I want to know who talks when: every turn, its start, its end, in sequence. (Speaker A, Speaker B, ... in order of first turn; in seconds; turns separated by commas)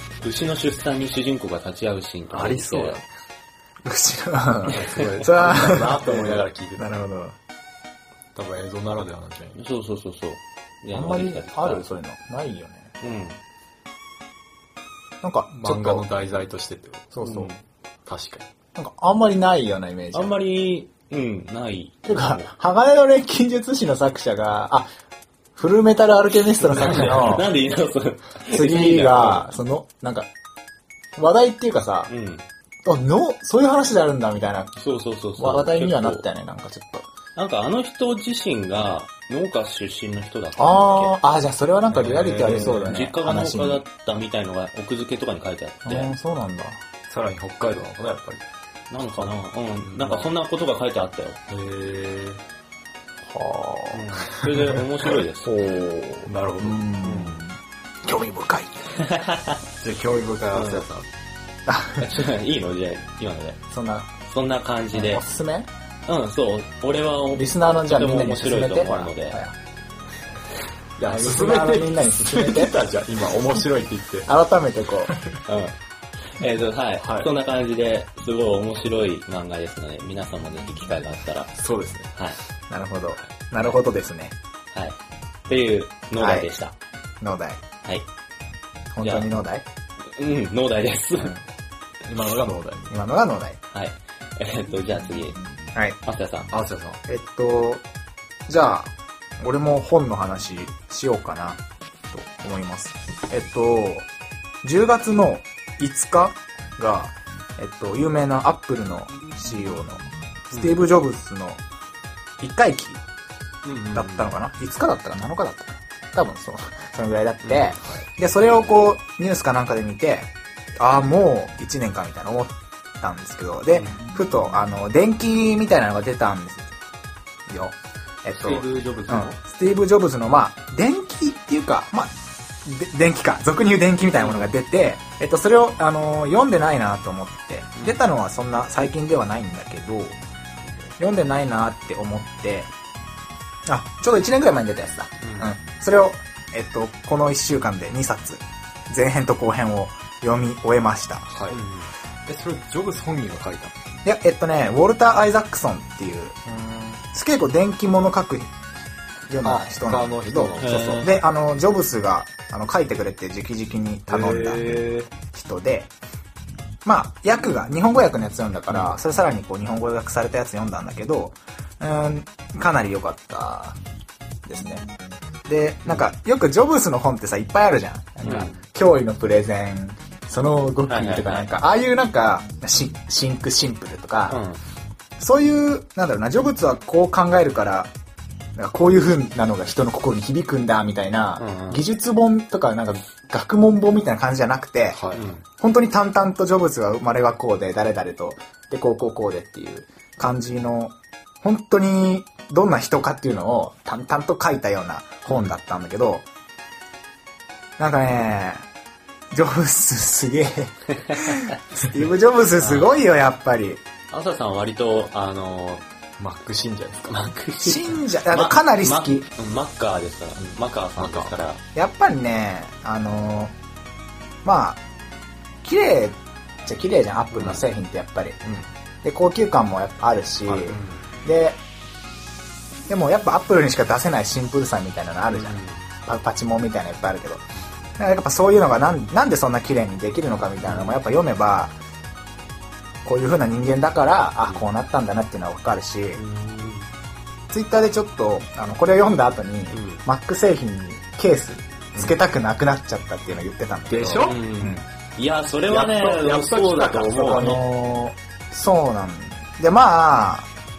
Speaker A: 0.2-3.0, Speaker B: 2.3-3.1, Speaker C: 3.8-7.4, Speaker A: 4.7-5.1, Speaker B: 4.7-6.9, Speaker A: 5.7-6.4, Speaker B: 8.3-9.6, Speaker A: 9.6-11.8, Speaker C: 10.9-12.9, Speaker A: 13.0-13.4, Speaker C: 15.2-16.1, Speaker B: 15.5-17.1, Speaker C: 17.1-17.5, Speaker A: 17.2-17.6, Speaker B: 18.1-18.5, Speaker C: 18.8-20.3, Speaker A: 20.1-22.5, Speaker C: 22.1-24.9, Speaker C: 25.6-27.5, Speaker A: 26.6-29.5, Speaker B: 26.8-27.2, Speaker C: 28.5-30.3, Speaker C: 31.2-32.1, Speaker A: 32.1-32.5, Speaker C: 32.9-34.8, Speaker A: 34.8-36.3, Speaker C: 35.4-37.1, Speaker A: 37.4-41.1, Speaker C: 40.6-43.8, Speaker B: 41.9-43.0, Speaker A: 42.5-46.1, Speaker C: 45.9-46.8, Speaker B: 47.1-48.4, Speaker A: 48.9-51.4, Speaker B: 49.0-50.3, Speaker B: 51.5-52.4, Speaker C: 53.3-54.0, Speaker A: 53.9-55.5, Speaker B: 54.4-54.8, Speaker C: 55.5-58.7, Speaker B: 56.3-57.4, Speaker A: 59.0-59.6, Speaker B: 59.8-61.1, Speaker A: 60.5-60.9, Speaker C: 61.7-62.1, Speaker A: 62.0-63.6, Speaker C: 63.7-64.1, Speaker A: 64.2-65.2, Speaker C: 64.9-65.7, Speaker A: 66.1-69.4, Speaker C: 67.3-69.5, Speaker B: 71.0-74.3, Speaker C: 71.0-72.8, Speaker C: 74.3-75.1, Speaker B: 75.1-75.4, Speaker A: 75.5-75.7, Speaker A: 76.3-81.5, Speaker B: 77.0-77.3, Speaker B: 81.6-82.1, Speaker C: 82.7-84.3, Speaker A: 85.5-86.7, Speaker C: 86.2-86.5, Speaker C: 87.2-87.6, Speaker C: 88.9-89.7, Speaker A: 89.0-89.3, Speaker A: 90.2-91.3, Speaker B: 92.0-93.0, Speaker C: 92.9-93.6, Speaker A: 93.7-95.4, Speaker A: 96.0-96.5, Speaker B: 96.5-97.0, Speaker C: 97.1-97.8, Speaker C: 98.5-101.6, Speaker C: 102.1-104.1, Speaker C: 104.6-111.6, Speaker A: 110.5-110.8, Speaker C: 112.4-113.0, Speaker A: 113.6-114.3, Speaker C: 113.9-126.7, Speaker A: 117.4-117.8, Speaker A: 123.7-124.1, Speaker C: 127.5-132.1, Speaker A: 128.3-129.4, Speaker C: 132.6-140.2, Speaker A: 134.2-134.5, Speaker C: 141.0-142.7, Speaker C: 143.7-151.3, Speaker A: 145.2-145.5, Speaker B: 151.3-151.6, Speaker A: 151.5-151.9, Speaker B: 152.3-153.7, Speaker C: 154.1-156.4, Speaker B: 156.4-157.0, Speaker C: 157.1-158.5, Speaker C: 159.3-165.9, Speaker B: 159.4-161.1, Speaker A: 160.6-161.1, Speaker B: 164.1-165.1, Speaker C: 166.8-173.8, Speaker C: 174.5-174.9, Speaker C: 175.5-184.4, Speaker A: 178.2-178.6, Speaker A: 180.9-181.5, Speaker A: 184.3-184.6, Speaker C: 185.2-187.9, Speaker C: 188.6-206.3, Speaker A: 191.4-191.8, Speaker B: 194.9-195.4, Speaker A: 195.2-195.4, Speaker A: 205.3-205.5, Speaker C: 207.8-208.7, Speaker C: 209.3-213.8, Speaker A: 210.9-211.5, Speaker A: 212.6-212.9, Speaker A: 214.1-215.8, Speaker B: 216.2-217.2, Speaker A: 217.1-221.6, Speaker C: 217.6-219.3, Speaker B: 220.4-221.3, Speaker C: 221.8-223.6, Speaker C: 224.4-224.8, Speaker C: 225.6-228.4, Speaker A: 227.3-227.6, Speaker B: 228.4-228.7, Speaker C: 229.0-231.6, Speaker B: 230.4-231.1, Speaker C: 232.9-237.5, Speaker A: 235.3-235.8, Speaker C: 238.0-241.7, Speaker A: 240.7-241.0, Speaker C: 243.0-246.2, Speaker A: 246.2-246.9, Speaker C: 247.5-254.8, Speaker A: 249.7-250.0, Speaker B: 253.9-254.5, Speaker A: 254.2-257.6, Speaker B: 255.7-257.6, Speaker C: 257.2-260.5